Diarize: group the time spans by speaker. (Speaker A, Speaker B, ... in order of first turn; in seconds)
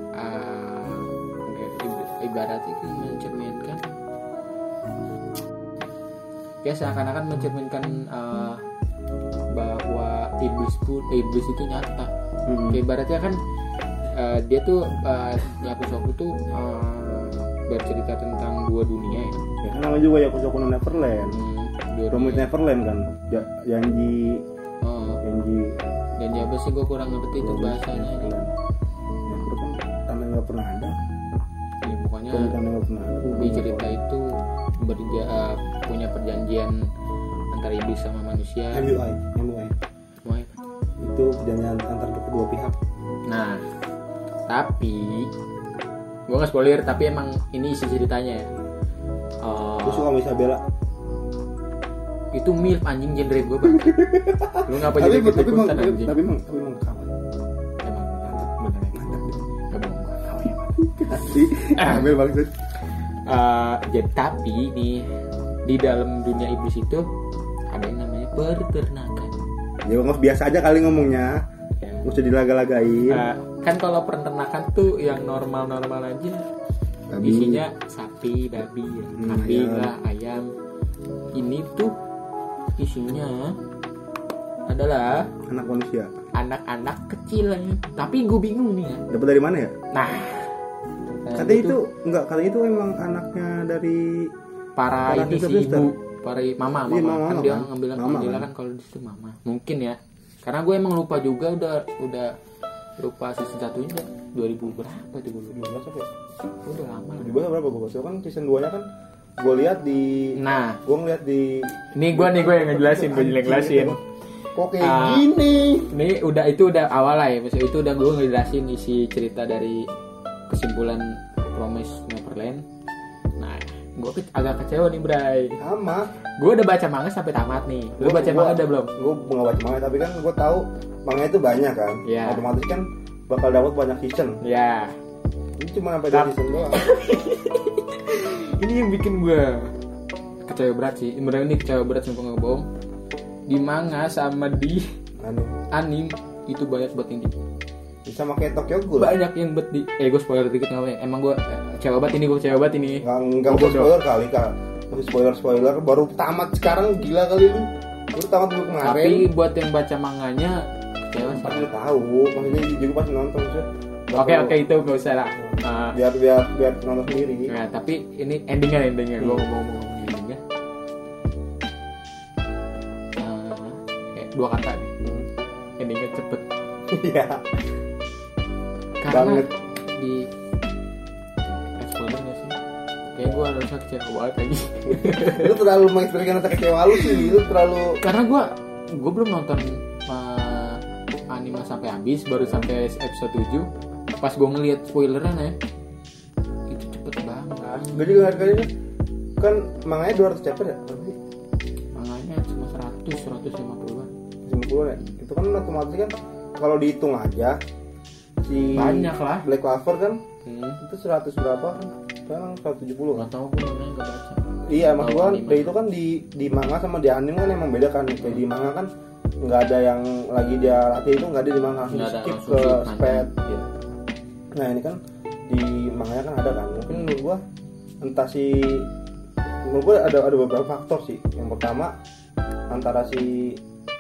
Speaker A: 0.1-3.9, 6.6-8.6, 9.5-12.1, 12.7-13.4, 14.1-19.4, 21.3-22.5, 24.8-25.2, 26.2-28.4, 31.8-32.6, 33.3-36.9, 37.5-38.9, 40.2-40.6, 43.3-43.6, 44.5-45.3, 46.3-48.5, 49.4-50.1, 52.3-54.0, 54.6-56.2, 57.8-62.1, 63.3-65.1, 65.6-67.1, 67.7-69.4, 71.8-72.1, 73.1-76.4, 77.2-80.5, 81.3-82.0, 82.8-83.5, 84.7-85.3, 86.3-89.0, 89.9-90.5, 91.0-91.8, 94.8-102.3, 103.0-105.5, 106.6-107.4, 110.3-110.8, 111.9-114.0, 114.8-115.3, 115.9-119.8, 120.5-122.6, 123.4-125.6, 126.4-128.9, 132.0-132.4, 134.4-134.9, 136.1-139.7, 140.4-142.6, 143.5-144.9, 145.7-147.3, 149.0-153.9, 158.8-161.7, 164.1-166.0, 167.5-170.4, 173.2-174.9, 175.8-176.5, 179.0-180.3, 181.8-182.6, 183.1-185.6, 188.0-193.7, 194.2-195.6, 196.7-198.7, 201.9-204.1, 208.7-209.4, 210.4-210.8, 213.1-215.7, 221.9-223.7
Speaker B: 12.5-12.8, 19.6-21.4, 22.1-24.4, 25.2-25.8, 27.4-28.5, 29.2-31.0, 32.3-33.9, 38.7-39.7, 41.0-42.8, 49.8-50.6, 53.7-57.1, 58.3-59.4, 61.0-62.5, 69.8-71.4, 72.0-73.2, 77.1-77.6, 79.1-79.9, 85.5-86.2, 89.1-89.7, 91.3-94.3, 95.0-95.9, 96.9-98.5, 105.5-106.1, 107.2-108.9, 109.4-114.0, 114.5-115.9, 125.6-126.1, 128.0-134.4, 135.6-136.8, 145.2-145.5, 148.1-149.2, 153.0-159.3, 161.2-164.6, 165.9-167.5, 169.2-169.4, 175.0-175.3, 176.9-177.4, 179.1-179.5, 184.9-188.0, 197.7-198.7, 199.4-201.2, 204.4-207.6, 208.4-210.2, 210.8-213.3, 214.7-218.9, 219.4-223.3, 224.5-227.4, 228.0-228.9, 229.6-232.0, 232.7-233.6